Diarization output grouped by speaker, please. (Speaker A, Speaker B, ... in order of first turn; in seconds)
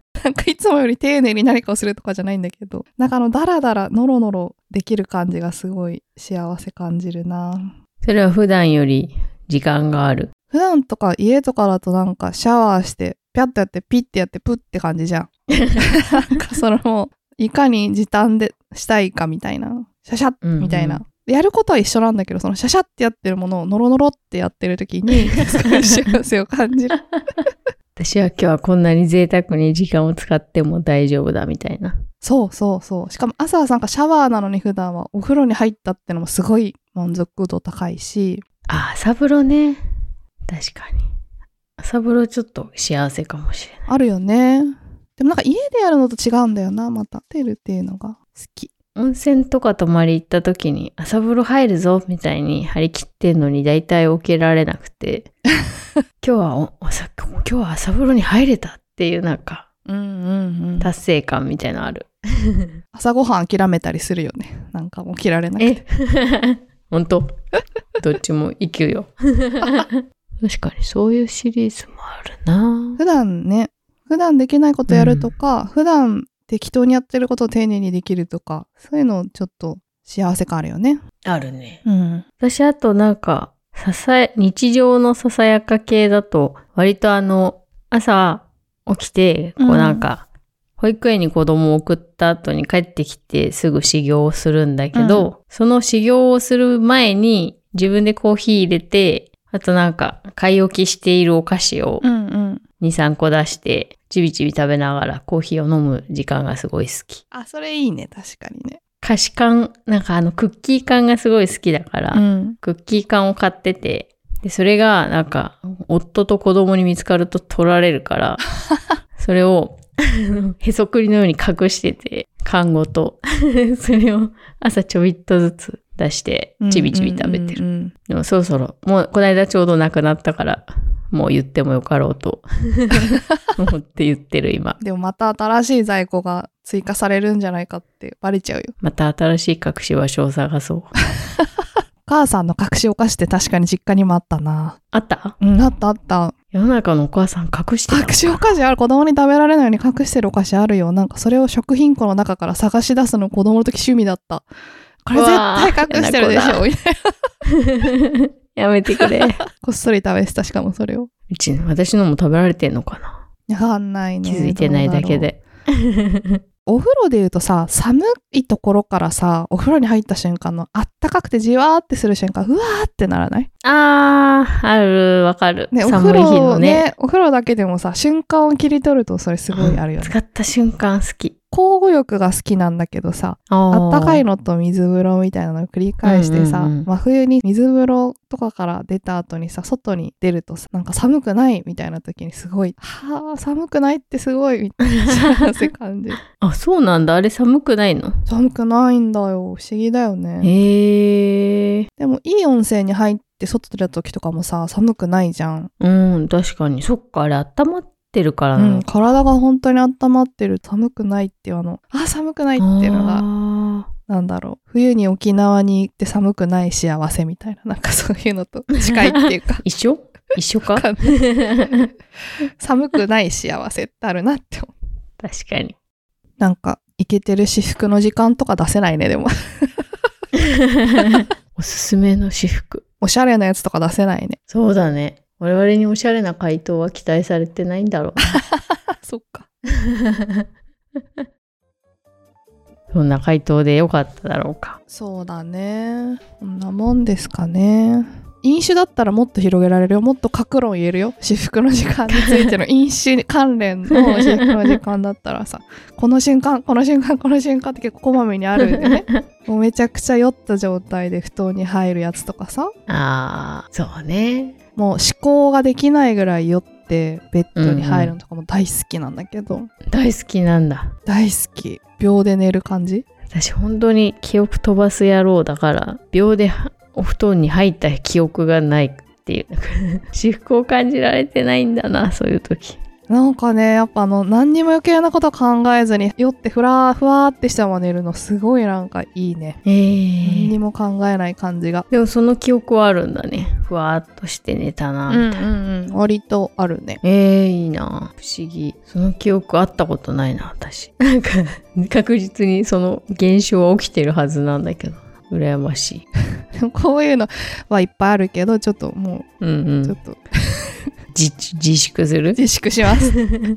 Speaker A: 0.2-7.8, 10.5-27.0, 32.2-38.4, 43.9-48.7, 59.9-60.9, 62.9-65.8, 73.0-81.0, 81.8-82.2, 89.6-90.1, 94.9-95.3, 102.0-102.6, 107.3-108.8, 112.1-112.6, 126.6-127.9, 134.8-138.7, 142.1-144.8, 145.4-146.3, 147.9-154.5, 155.1-157.1, 159.6-161.1, 163.5-165.3, 166.7-173.5, 175.7-180.2, 181.5-196.2, 198.3-200.5, 202.0-205.7, 208.6-213.2, 214.1-219.6, 220.8-221.7, 222.6-224.7, 226.4-229.7, 233.0-234.4, 238.3-239.5, 244.9-262.7, 264.8-269.7, 271.1-273.1, 283.1-289.6, 290.2-291.9, 295.1-297.0, 306.6-309.3, 309.8-310.8, 312.4-313.2
Speaker B: 8.0-10.3, 15.6-15.8, 20.4-21.0, 28.0-32.0, 38.7-39.8, 40.5-41.0, 41.8-43.9, 49.0-55.3, 56.2-59.6, 60.8-62.8, 65.6-67.3, 68.0-73.0, 74.9-75.3, 81.2-81.8, 82.4-90.2, 90.8-102.0, 102.8-107.2, 109.0-118.4, 119.2-134.8, 138.8-140.9, 144.9-145.3, 146.5-148.5, 155.1-156.6, 157.7-159.4, 161.3-163.2, 164.2-166.4, 173.6-176.9, 179.5-181.3, 183.5-184.2, 186.0-186.9, 196.4-198.2, 200.4-201.9, 205.8-208.8, 212.6-213.9, 219.6-221.9, 225.2-225.8, 230.9-232.8, 234.5-238.4, 239.8-240.4, 242.9-244.8, 258.7-259.2, 262.9-264.6, 267.6-268.1, 269.9-270.9, 273.3-282.8, 289.6-290.6, 291.9-295.4, 297.0-306.1, 309.4-310.0, 311.1-312.4